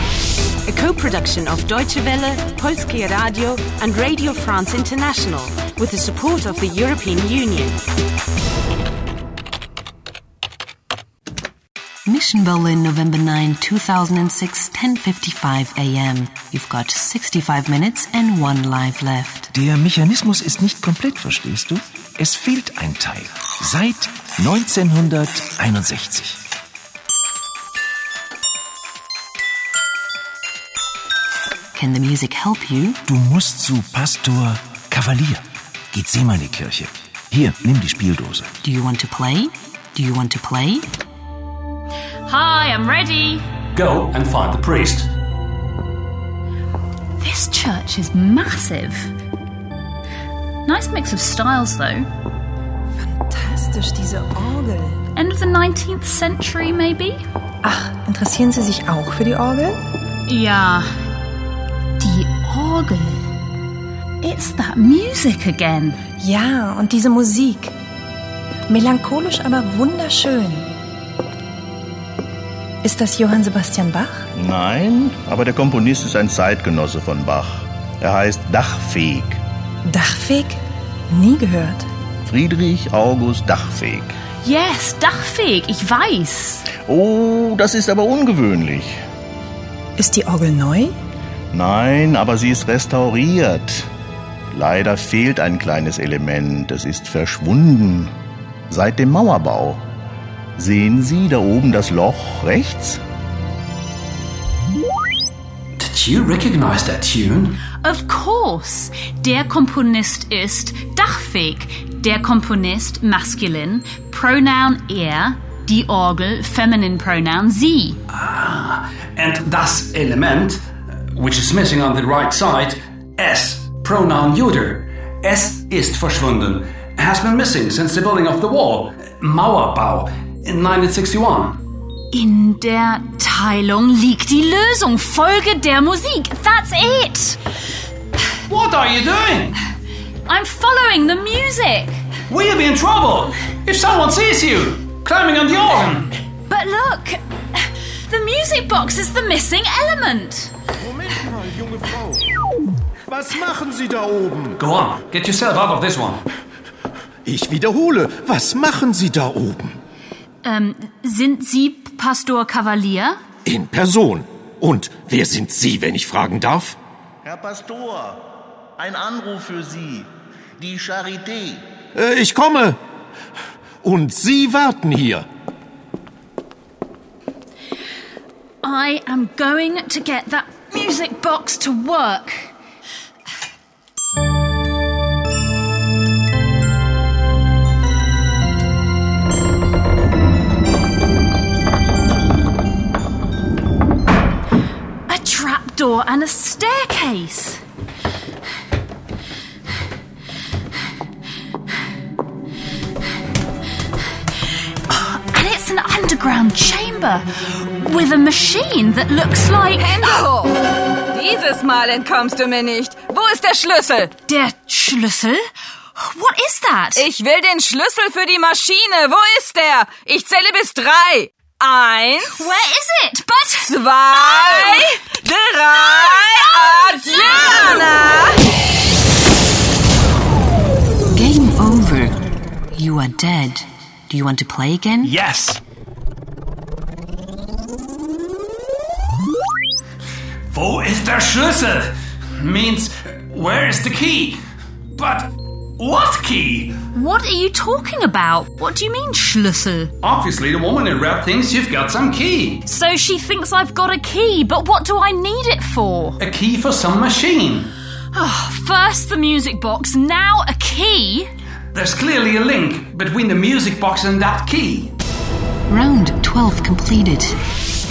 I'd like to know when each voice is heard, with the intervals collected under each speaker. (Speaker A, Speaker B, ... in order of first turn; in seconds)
Speaker A: 0.7-7.8
Speaker B: 12.1-19.5, 31.7-33.0, 38.6-40.9, 231.1-232.1, 232.7-235.1, 265.7-267.3
Speaker C: 19.6-26.4, 33.1-35.4, 35.9-38.5
Speaker D: 42.2-43.4, 47.2-49.1, 50.6-52.1, 55.1-57.2, 60.3-60.9, 62.0-63.2, 64.2-66.0, 84.4-86.6, 107.8-118.0, 132.1-137.4, 140.3-142.0, 146.5-147.2, 148.1-150.5, 160.4-163.2, 178.6-182.5, 195.1-197.6, 204.9-210.2, 214.3-217.1, 222.3-223.7, 246.9-249.9, 252.6-256.2, 258.1-261.3
Speaker E: 43.7-45.1, 105.8-107.6, 118.1-120.6, 121.1-131.6, 138.5-139.6, 142.3-146.1, 154.6-156.2, 235.0-235.6, 240.5-244.4, 244.9-246.8, 250.0-252.6, 256.2-257.7, 261.7-264.9
Speaker F: 53.0-55.0, 57.6-59.8, 66.2-67.7, 68.7-70.7, 72.8-74.2, 79.8-80.6, 81.1-81.8, 90.0-90.9
Speaker G: 74.3-79.4, 82.2-84.1, 86.8-89.0, 91.5-93.9, 94.5-98.1, 98.7-99.8, 100.6-103.0, 167.2-168.2, 168.8-171.6
Speaker H: 150.8-152.2, 153.1-154.6, 157.2-159.8, 163.4-166.8, 171.9-172.8, 173.8-175.2
Speaker I: 209.8-214.1, 216.9-222.4, 223.6-228.4